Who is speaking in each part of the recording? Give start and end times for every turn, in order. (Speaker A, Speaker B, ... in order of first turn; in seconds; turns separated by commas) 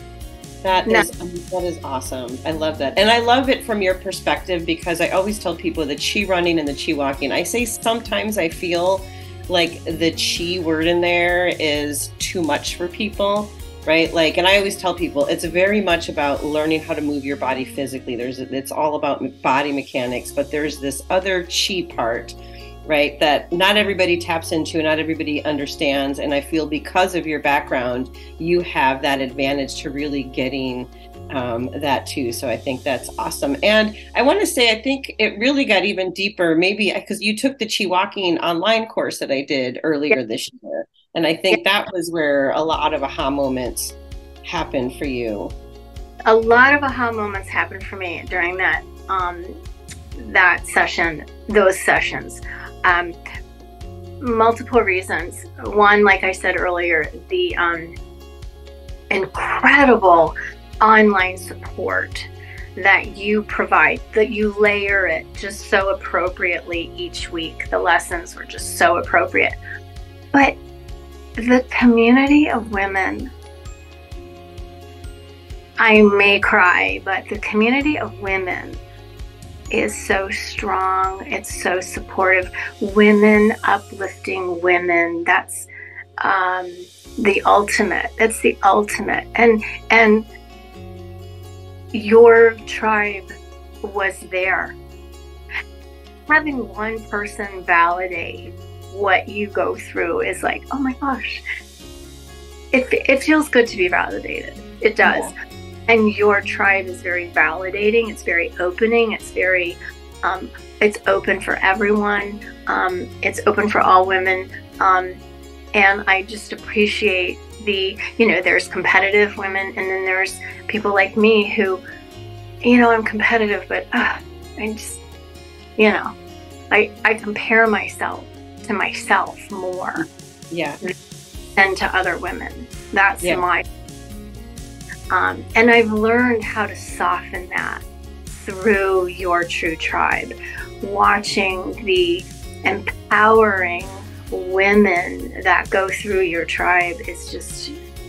Speaker A: 0.6-45.5, Speaker B: 46.3-49.6, Speaker B: 50.2-53.2, Speaker B: 54.2-57.9, Speaker B: 59.1-69.5, Speaker B: 70.3-70.6, Speaker B: 71.4-73.3, Speaker B: 75.8-78.8, Speaker B: 79.7-85.7, Speaker B: 86.2-90.2, Speaker B: 91.9-93.2, Speaker B: 93.8-94.8, Speaker B: 96.3-101.4, Speaker B: 102.7-105.3, Speaker A: 105.0-105.3, Speaker B: 105.9-115.2, Speaker B: 115.7-121.8, Speaker B: 122.6-125.0, Speaker B: 125.8-126.1, Speaker B: 126.7-130.1, Speaker A: 130.0-130.8, Speaker B: 131.6-133.6, Speaker B: 135.1-147.7